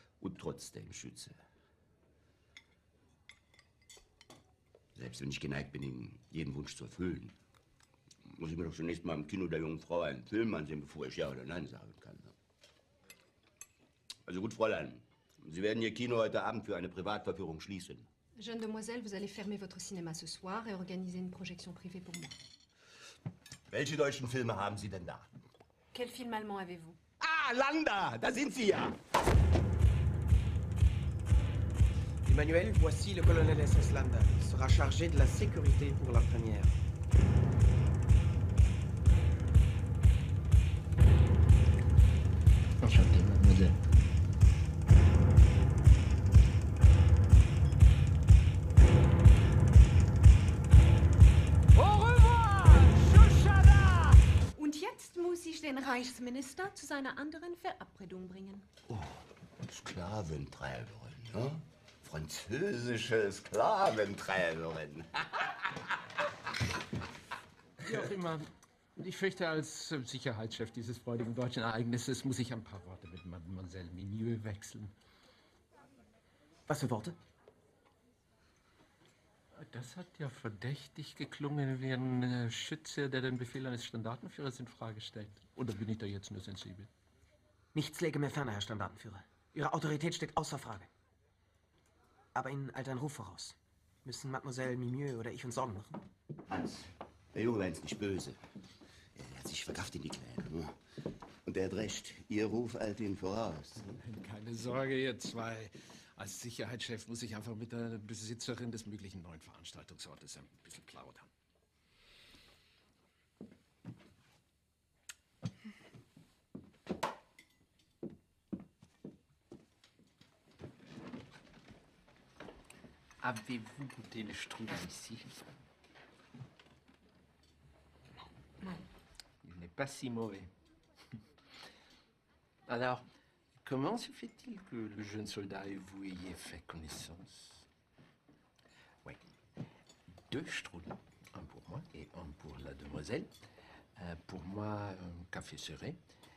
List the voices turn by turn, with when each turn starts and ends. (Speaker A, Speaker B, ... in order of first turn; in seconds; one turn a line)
Speaker A: 0.2-1.4
Speaker A: 5.0-7.3
Speaker A: 8.2-12.3
Speaker A: 14.2-18.1
Speaker B: 18.4-22.4
Speaker A: 23.7-25.3
Speaker B: 25.9-27.0
Speaker A: 27.2-29.0
Speaker C: 32.2-36.8
Speaker D: 42.8-43.8
Speaker D: 51.8-54.2
Speaker B: 54.5-58.7
Speaker A: 58.9-66.0
Speaker D: 67.8-74.9
Speaker C: 76.7-77.2
Speaker D: 79.5-86.9
Speaker C: 87.7-90.9
Speaker C: 92.3-96.0
Speaker A: 96.5-98.4
Speaker A: 99.2-100.8
Speaker A: 101.5-103.9
Speaker D: 103.8-111.3
Speaker D: 123.2-125.5
Speaker D: 129.4-130.5
Speaker D: 132.7-133.1
Speaker D: 133.6-137.7
Speaker D: 139.0-139.3
Speaker D: 140.3-143.4
Speaker D: 144.0-146.0